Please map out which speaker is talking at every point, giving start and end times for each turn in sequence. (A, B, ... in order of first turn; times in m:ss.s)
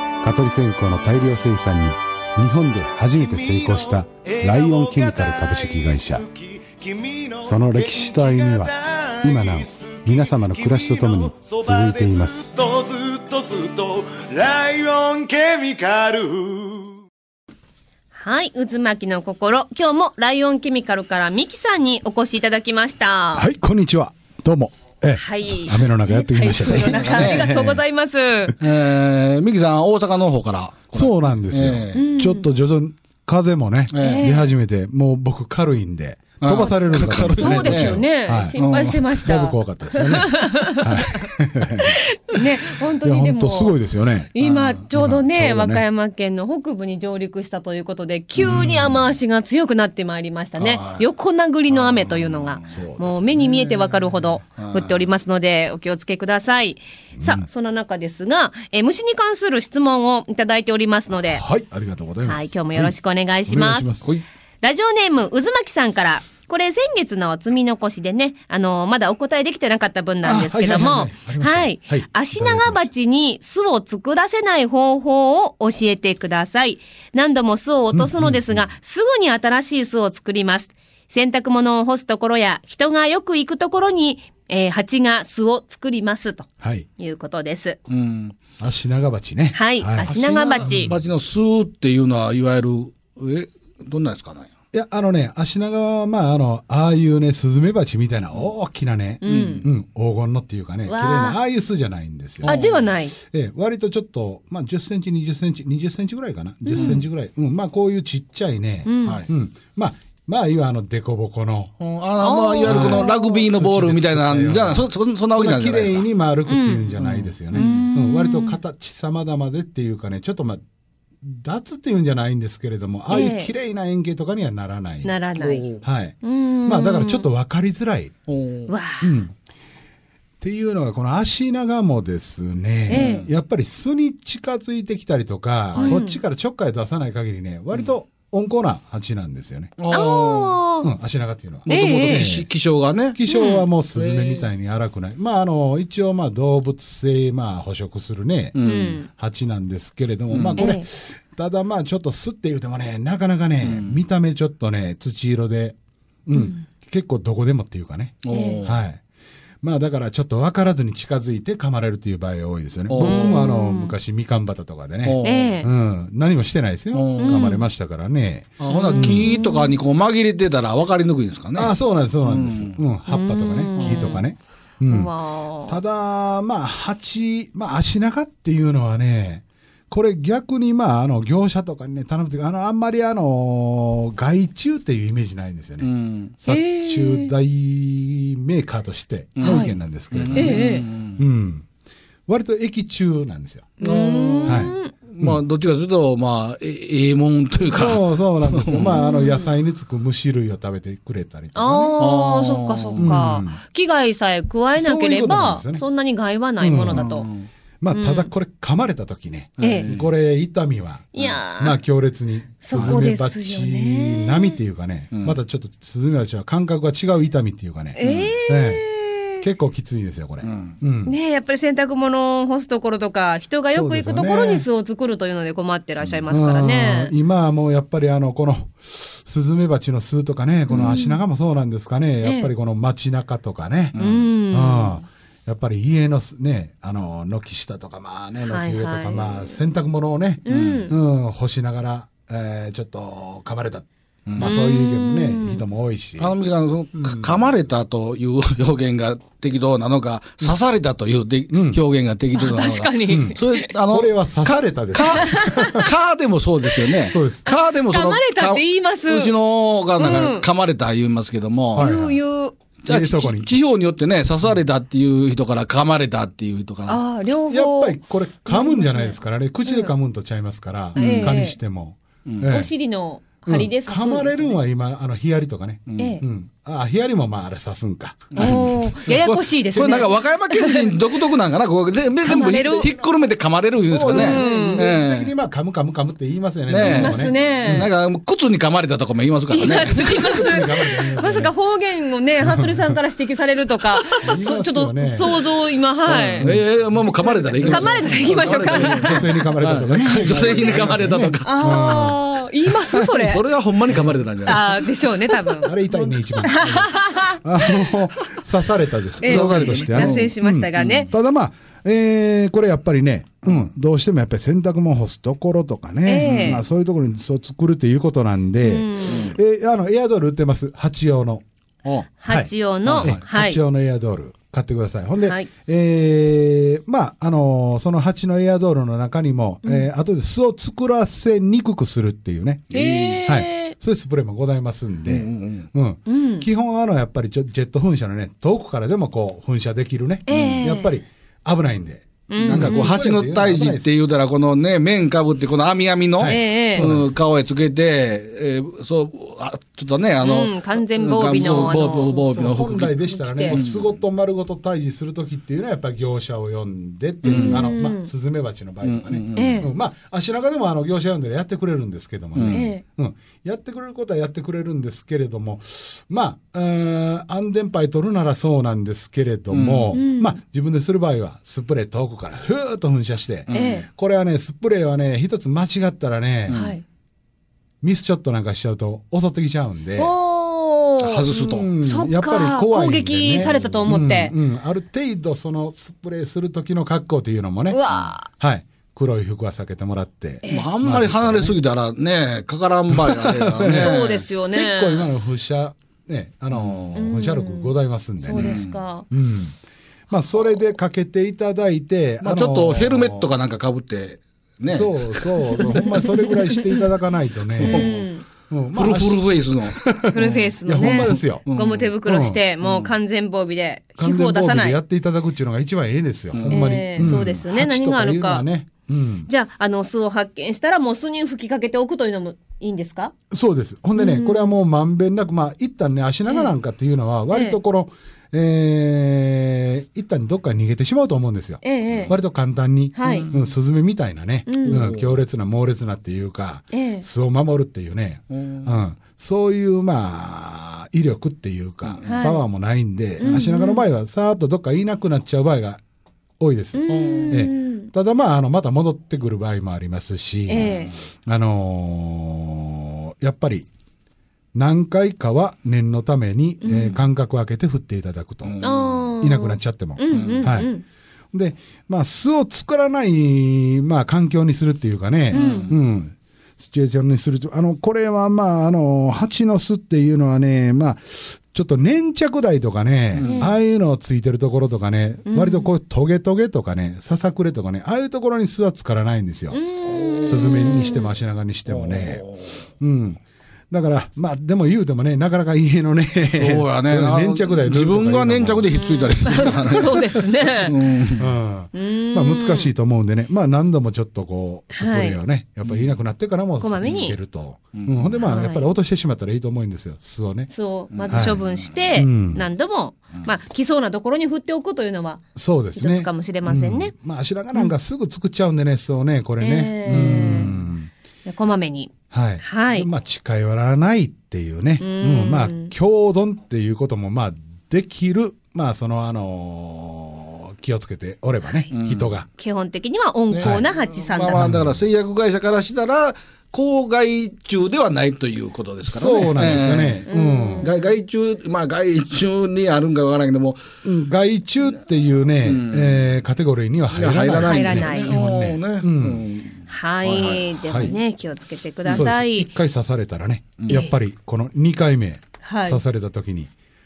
0:00.2-0:06.3 A
0:03.3-0:16.9 B
0:07.4-0:12.6 A
0:18.1-0:23.5 C
0:23.3-0:27.8 A
0:25.1-0:28.6 C
0:26.6-0:27.5 D
0:28.6-0:32.0 D
0:30.9-0:38.6 A
0:31.9-0:32.5 C
0:33.9-0:34.3 D
0:34.0-0:34.5 C
0:36.4-0:38.0 D
0:37.4-0:41.3 C
0:38.6-0:39.1 D
0:39.1-0:42.0 A
0:41.8-0:43.8 C
0:43.0-0:44.3 A
0:44.3-1:01.4 C
0:44.4-0:44.8 D
0:44.9-0:45.8 A
0:48.4-0:49.0 A
0:48.4-0:49.0 D
0:50.6-0:51.0 D
0:51.7-0:52.9 D
0:52.7-0:54.4 A
0:54.6-0:55.1 D
0:57.2-0:57.4 A
1:01.3-1:02.9 A
1:02.2-1:03.9 C
1:03.4-1:04.1 A
1:04.6-1:27.8 C
1:10.2-1:12.9 A
1:17.9-1:18.7 A
1:26.6-1:26.9 A
1:27.9-1:28.3 D
1:28.6-1:31.0 A
1:29.5-1:30.9 C
1:30.6-1:34.5 D
1:34.7-1:42.6 A
1:39.2-1:39.7 C
1:39.2-1:39.7 D
1:40.9-1:41.4 C
1:42.4-1:42.8 D
1:42.4-1:43.2 C
1:43.2-1:51.7 A
1:46.6-1:47.0 C
1:46.7-1:47.0 D
1:48.8-1:49.2 C
1:51.8-1:56.1 D
1:52.2-1:53.5 C
1:52.6-2:00.6 A
1:56.5-1:57.0 C
1:57.0-1:57.8 D
1:57.5-1:58.6 C
2:01.2-2:05.2 A
2:03.1-2:03.5 C
2:05.0-2:05.7 C
2:05.3-2:05.8 D
2:05.8-2:08.1 A
2:06.2-2:07.3 C
2:08.3-2:08.7 D
2:08.7-2:09.2 C
2:09.0-2:09.3 A
2:10.4-2:19.7 A
2:12.9-2:13.2 C
2:12.9-2:13.3 D
2:15.7-2:16.0 D
2:15.8-2:16.2 C
2:19.8-2:20.6 D
2:19.9-2:20.9 C
2:20.8-2:22.5 A
2:21.7-2:23.2 D
2:21.7-2:22.3 C
2:23.1-2:28.6 A
2:23.3-2:23.7 C
2:23.9-2:24.5 D
2:28.5-2:29.0 D
2:28.6-2:29.1 C
2:29.1-2:39.0 A
2:30.3-2:30.7 D
2:30.6-2:30.8 C
2:33.6-2:34.0 D
2:36.3-2:36.6 C
2:38.2-2:38.8 D
2:38.3-2:38.6 C
2:39.6-2:49.3 A
2:42.9-2:43.4 D
2:43.0-2:44.0 C
2:45.0-2:45.6 D
2:45.2-2:45.7 C
2:46.9-2:47.5 D
2:47.2-2:47.6 C
2:48.6-2:52.8 D
2:48.7-2:49.8 C
2:51.5-2:55.1 A
2:53.1-2:54.2 C
2:53.8-2:54.2 D
2:54.9-2:55.8 C
2:55.7-3:11.7 A
3:05.8-3:06.3 D
3:06.5-3:07.3 C
3:09.4-3:11.2 D
3:09.4-3:09.8 C
3:10.3-3:10.8 C
3:12.3-3:13.7 A
3:13.8-3:14.9 C
3:13.8-3:19.0 D
3:14.4-3:15.4 A
3:17.7-3:22.0 A
3:18.8-3:19.5 C
3:21.5-3:27.3 C
3:22.0-3:23.2 D
3:23.0-3:23.6 A
3:24.8-3:25.8 A
3:26.6-3:27.1 A
3:26.9-3:27.5 D
3:27.8-3:41.2 A
3:27.9-3:28.3 C
3:29.6-3:29.9 C
3:29.6-3:30.1 D
3:31.1-3:31.8 C
3:32.6-3:34.6 C
3:32.7-3:33.0 D
3:35.1-3:35.4 D
3:37.9-3:39.4 C
3:38.0-3:38.3 D
3:40.4-3:40.8 D
3:41.0-3:47.1 C
3:43.7-3:44.7 A
3:46.3-3:54.0 A
3:50.7-3:51.2 C
3:52.2-3:52.5 C
3:53.9-3:54.3 D
3:54.0-3:55.0 C
3:54.5-4:06.4 A
3:58.4-3:59.6 C
4:00.4-4:00.9 C
4:00.5-4:00.8 D
4:04.3-4:04.5 D
4:04.4-4:05.6 C
4:06.2-4:21.9 D
4:06.9-4:07.5 A
4:11.5-4:11.8 A
4:12.3-4:13.7 C
4:13.1-4:15.9 A
4:15.1-4:15.9 C
4:16.7-4:19.3 C
4:17.1-4:17.5 A
4:20.0-4:20.5 C
4:21.7-4:22.1 A
4:21.8-4:22.6 C
4:22.8-4:27.0 D
4:22.9-4:23.6 A
4:26.9-4:29.9 C
4:27.5-4:32.7 A
4:31.0-4:31.6 C
4:31.0-4:31.4 D
4:32.4-4:34.6 C
4:33.5-4:39.2 A
4:35.9-4:36.2 D
4:36.0-4:36.2 C
4:38.3-4:45.3 D
4:38.4-4:41.1 C
4:42.2-4:42.9 C
4:42.4-4:43.1 A
4:43.8-4:47.9 A
4:44.1-4:44.9 C
4:46.7-4:50.4 D
4:46.9-4:47.9 C
4:49.5-4:56.6 C
4:50.1-4:51.5 A
4:52.4-4:53.0 A
4:54.0-4:54.2 D
4:54.2-4:55.3 A
4:56.1-5:02.1 D
4:56.4-4:57.0 A
4:57.2-4:59.5 C
4:57.6-5:02.2 A
5:00.1-5:03.5 C
5:02.9-5:03.4 A
5:03.0-5:06.7 D
5:03.9-5:04.3 A
5:04.4-5:05.7 C
5:05.6-5:21.4 A
5:06.4-5:07.9 C
5:09.2-5:11.1 C
5:09.2-5:11.1 D
5:16.0-5:16.6 C
5:16.2-5:16.6 D
5:18.6-5:19.3 C
5:19.0-5:19.4 D
5:22.2-5:23.6 C
5:22.3-5:32.7 A
5:22.8-5:23.2 D
5:25.2-5:25.5 C
5:29.6-5:29.9 C
5:32.7-5:33.3 D
5:32.7-5:33.7 C
5:33.3-5:43.9 A
5:35.0-5:35.7 D
5:36.1-5:36.5 C
5:40.3-5:41.0 C
5:40.3-5:40.6 D
5:42.3-5:42.9 C
5:42.4-5:54.0 D
5:46.2-5:47.2 A
5:46.2-5:46.9 C
5:50.2-5:52.1 C
5:51.3-6:16.6 A
5:53.1-5:53.6 C
5:57.2-5:57.7 D
5:57.3-5:58.1 C
5:58.8-5:59.7 D
5:59.4-5:59.7 C
6:02.4-6:02.6 D
6:02.5-6:02.8 C
6:09.5-6:10.0 D
6:09.9-6:10.4 C
6:13.5-6:13.8 D
6:13.5-6:13.9 C
6:16.5-6:16.8 D
6:16.5-6:16.8 C
6:17.8-6:20.1 A
6:20.0-6:24.3 C
6:21.0-6:21.7 D
6:21.6-6:31.6 A
6:23.4-6:23.9 D
6:27.7-6:28.3 C
6:30.4-6:30.7 C
6:30.5-6:34.3 D
6:32.9-6:33.9 A
6:33.6-6:35.1 C
6:34.5-6:39.6 A
6:36.5-6:37.1 D
6:37.0-6:39.1 C
6:38.3-6:38.7 D
6:40.1-6:43.3 A
6:42.2-6:46.1 D
6:44.7-6:47.9 A
6:45.8-6:46.8 C
6:47.6-6:48.2 C
6:47.6-6:48.1 D
6:48.5-6:50.1 A
6:48.7-6:51.9 D
6:50.1-6:54.8 C
6:50.6-6:51.5 A
6:52.0-6:52.4 A
6:52.6-6:52.9 D
6:54.0-6:59.3 A
6:56.3-6:57.3 D
6:56.5-6:58.5 C
6:59.3-7:03.1 C
7:03.3-7:25.8 A
7:04.0-7:04.6 C
7:06.3-7:06.5 C
7:07.3-7:07.6 C
7:11.6-7:12.2 C
7:13.0-7:13.3 C
7:13.0-7:13.5 D
7:14.5-7:14.9 C
7:14.6-7:15.2 D
7:16.7-7:17.1 C
7:18.3-7:18.8 D
7:21.8-7:22.2 D
7:22.0-7:22.4 C
7:23.2-7:23.8 C
7:26.4-7:33.7 A
7:26.8-7:27.9 C
7:26.9-7:27.4 D
7:30.5-7:30.9 C
7:30.6-7:30.9 D
7:34.6-7:38.6 A
7:36.6-7:37.0 C
7:38.4-7:39.0 D
7:38.6-7:40.8 C
7:39.2-7:40.7 A
7:40.1-7:40.6 D
7:41.3-7:59.6 A
7:45.3-7:45.7 C
7:45.3-7:45.8 D
7:53.2-7:53.5 D
7:53.2-7:53.5 C
7:55.3-7:55.7 C
7:59.5-8:01.1 C
7:59.9-8:00.8 D
8:00.2-8:02.2 A
8:01.7-8:02.6 D
8:02.8-8:10.0 A
8:06.3-8:11.4 D
8:08.8-8:10.8 C
8:11.2-8:20.5 A
8:11.7-8:12.7 C
8:14.7-8:15.2 C
8:15.6-8:15.9 D
8:16.6-8:17.2 C
8:17.7-8:18.2 D
8:18.2-8:18.7 C
8:20.5-8:25.2 C
8:20.9-8:21.8 D
8:21.1-8:21.4 A
8:22.0-8:22.5 A
8:25.4-8:30.9 A
8:25.7-8:26.9 C
8:29.4-8:30.6 C
8:29.9-8:30.6 D
8:31.3-8:32.9 C
8:32.1-8:42.3 A
8:34.8-8:35.7 C
8:41.7-8:42.1 D
8:42.4-8:44.5 C
8:43.3-8:50.0 D
8:44.3-8:44.8 A
8:48.8-8:50.7 A
8:50.0-8:50.7 C
8:50.6-8:53.6 D
8:53.8-8:59.2 A
8:55.4-8:56.1 D
8:56.9-9:00.9 D
8:57.4-8:58.2 C
8:59.7-9:02.5 C
9:00.6-9:00.9 A
9:01.8-9:06.5 A
9:03.6-9:03.8 D
9:05.4-9:05.8 C